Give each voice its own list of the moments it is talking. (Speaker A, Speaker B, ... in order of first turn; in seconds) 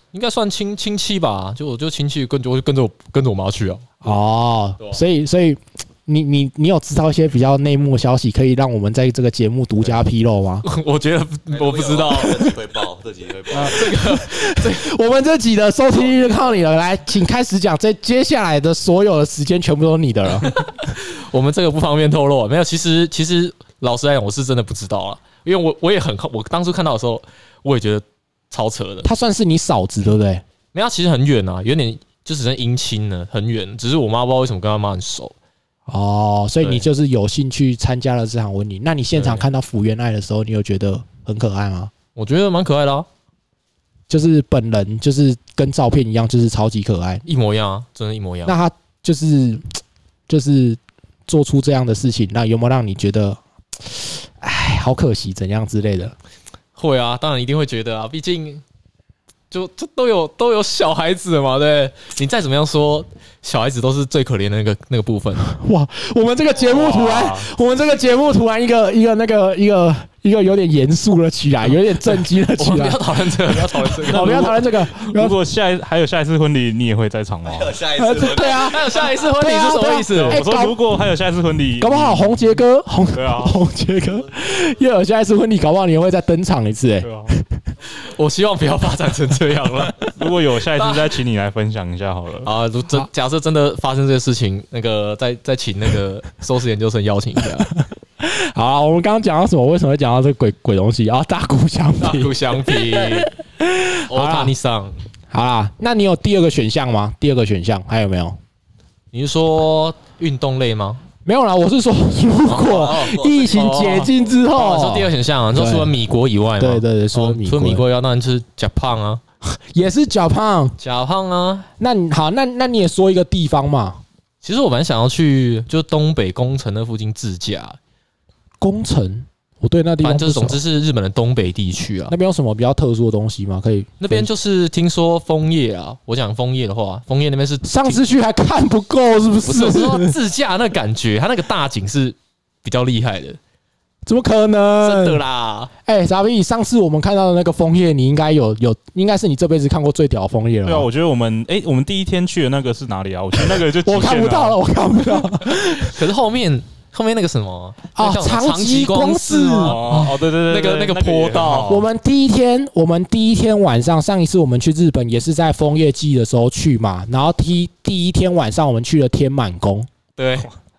Speaker A: 0.1-3.9, 10.6-12.5, 13.5-14.8, 20.4-29.1, 30.7-35.3, 39.1-39.4, 42.1-43.1, 47.2-48.5, 56.8-58.6, 59.5-65.5, 72.0-74.7, 78.3-80.4, 88.0-90.1, 90.7-91.2, 92.4-97.7, 102.0-103.3, 104.1-105.0, 109.1-111.0, 112.5-119.2, 120.8-121.7, 124.4-127.8, 130.0-132.1, 134.0-138.0, 139.4-143.4, 144.8-145.7, 155.8-161.8, 170.2-170.5
Speaker B: 4.0-10.6, 14.0-20.6, 29.0-30.4, 35.9-41.9, 44.1-47.2, 48.4-56.1, 65.5-75.3, 78.0-80.8, 81.8-87.4, 98.2-104.5, 105.3-108.4, 111.2-115.9, 116.6-117.8, 119.5-120.8, 121.8-124.0, 128.6-130.6, 132.1-134.3, 137.6-140.1, 144.1-145.2, 145.8-150.9, 153.5-156.0, 157.9-160.0, 161.7-169.9
Speaker C: 11.5-14.0, 77.4-78.9, 112.5-113.9
Speaker D: 66.6-67.5, 74.1-77.8, 80.1-82.3, 83.1-83.6, 87.0-87.3, 90.2-92.5, 150.6-154.6, 159.6-161.8